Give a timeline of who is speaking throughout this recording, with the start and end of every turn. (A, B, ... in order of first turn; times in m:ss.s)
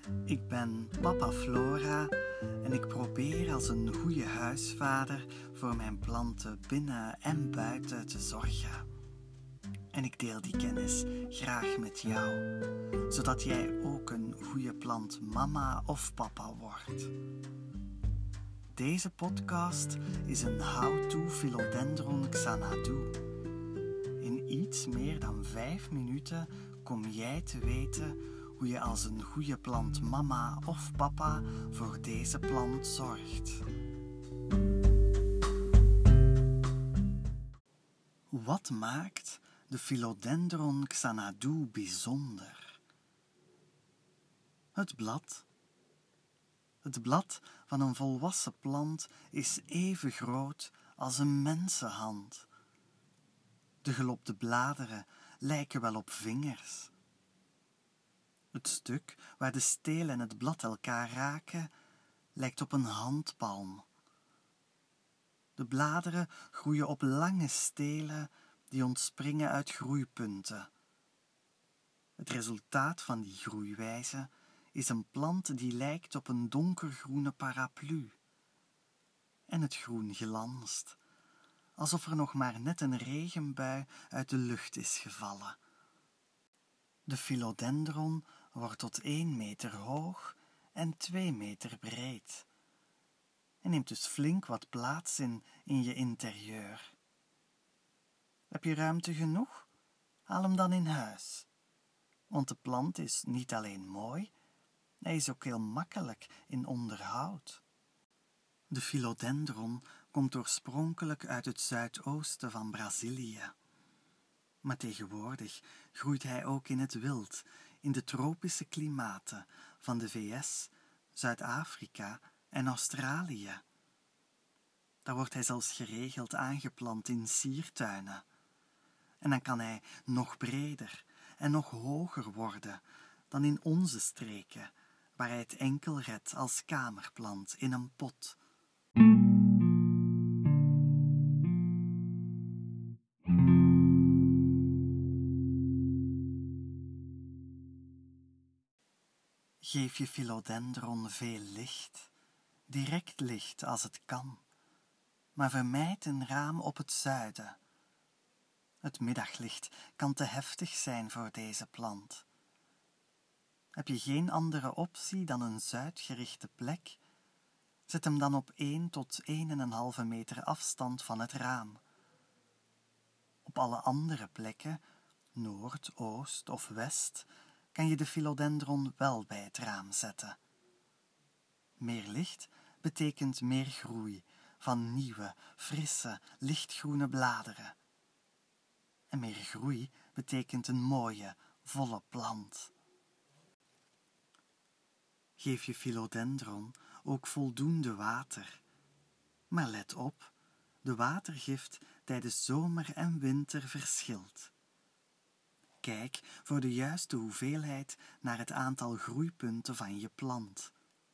0:00.2-0:08.9 A
0:09.9-0:12.5 A
0:13.1-0:17.1 A
0:18.7-0:23.2 A
0:24.2-0:33.6 A
0:38.3-0:42.8 A
0:44.7-0:45.4 A
0:46.8-0:52.5 A
0:53.8-0:56.9 A
0:58.5-1:01.7 A
1:02.3-1:03.8 A
1:05.6-1:10.7 A
1:12.2-1:18.2 A
1:19.5-1:21.0 A
1:21.8-1:25.6 A
1:27.0-1:32.5 A
1:33.6-1:36.9 A
1:38.5-1:39.7 A
1:40.3-1:41.5 A
1:42.3-1:44.3 A
1:45.0-1:47.6 A
1:48.7-1:53.5 A
1:54.6-2:03.6 A
2:05.0-2:08.2 A
2:09.2-2:18.4 A
2:29.6-2:32.1 A
2:32.7-2:34.4 A
2:35.3-2:37.6 A
2:38.8-2:42.2 A
2:43.7-2:47.0 A
2:47.9-2:51.8 A
2:53.4-2:54.8 A
2:55.3-3:00.4 A
3:01.8-3:07.8 A
3:09.1-3:12.7 A
3:15.4-3:18.6 A
3:19.5-3:20.3 A
3:20.8-3:24.5 A
3:25.8-3:30.7 A